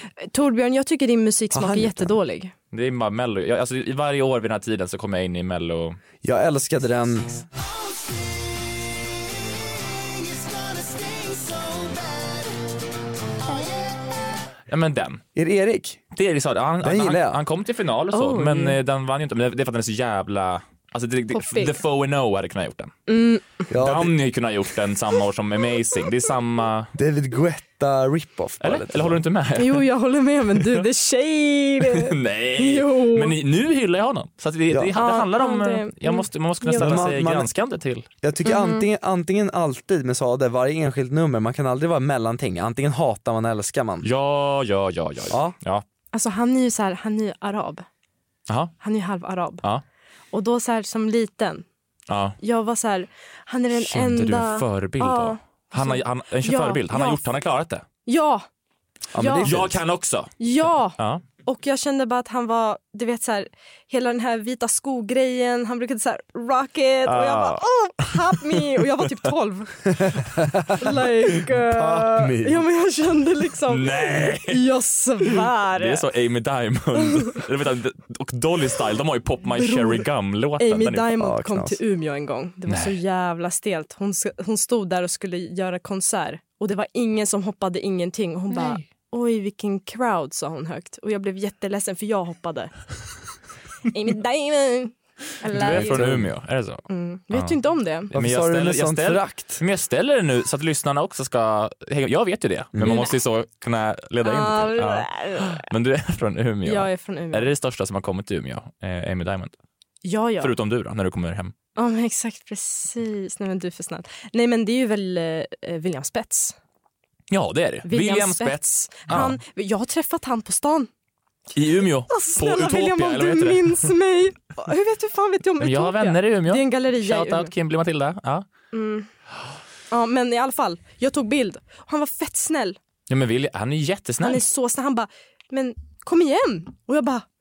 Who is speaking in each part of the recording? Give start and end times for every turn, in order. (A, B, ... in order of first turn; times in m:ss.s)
0:00.2-0:02.5 A
0:01.5-0:02.1 B
0:02.7-0:06.0 C
0:06.2-0:07.4 B
0:14.7-0:15.2 C
0:15.4-0:16.0 B
0:16.1-0:22.9 C
0:16.8-0:17.4 B
0:18.1-0:18.8 A
0:21.3-0:21.8 A
0:23.1-0:23.6 A
0:23.7-0:24.2 B
0:23.8-0:26.9 C
0:27.0-0:29.2 B
0:28.6-0:29.9 C
0:29.6-0:33.4 A
0:31.8-0:38.1 C
0:35.0-0:37.0 A
0:36.7-0:37.5 B
0:38.2-0:44.1 B
0:38.4-0:38.9 A
0:44.0-0:45.8 C
0:45.3-0:45.6 B
0:46.1-0:47.9 A
0:48.5-0:48.7 C
0:48.8-0:49.6 A
0:50.3-0:51.6 A
0:52.1-0:52.4 C
0:52.4-0:57.2 A
0:53.8-0:57.8 C
0:58.1-0:58.5 A
0:59.1-0:59.8 B
0:59.2-0:59.5 A
0:59.4-1:00.3 C
1:00.4-1:09.9 A
1:01.0-1:01.2 C
1:07.1-1:09.0 C
1:10.0-1:11.0 B
1:10.8-1:16.1 A
1:11.5-1:12.7 B
1:13.7-1:14.6 C
1:15.8-1:21.1 C
1:17.1-1:17.4 A
1:19.5-1:20.0 A
1:20.6-1:32.7 A
1:21.2-1:21.8 B
1:22.7-1:23.0 C
1:28.5-1:28.8 C
1:33.9-1:36.1 A
1:35.5-1:37.6 C
1:35.6-1:36.3 B
1:36.9-1:38.1 A
1:38.1-1:49.5 C
1:38.1-1:39.6 B
1:42.8-1:43.0 B
1:42.8-1:43.2 A
1:44.2-1:45.6 A
1:46.6-1:47.5 A
1:50.0-1:50.5 A
1:50.4-1:51.5 C
1:51.8-1:56.6 A
1:57.3-1:59.4 C
1:57.9-2:00.9 A
2:01.5-2:03.9 C
2:02.1-2:07.5 A
2:05.6-2:08.5 C
2:08.7-2:09.1 A
2:09.9-2:12.8 A
2:13.1-2:14.4 C
2:14.2-2:17.2 A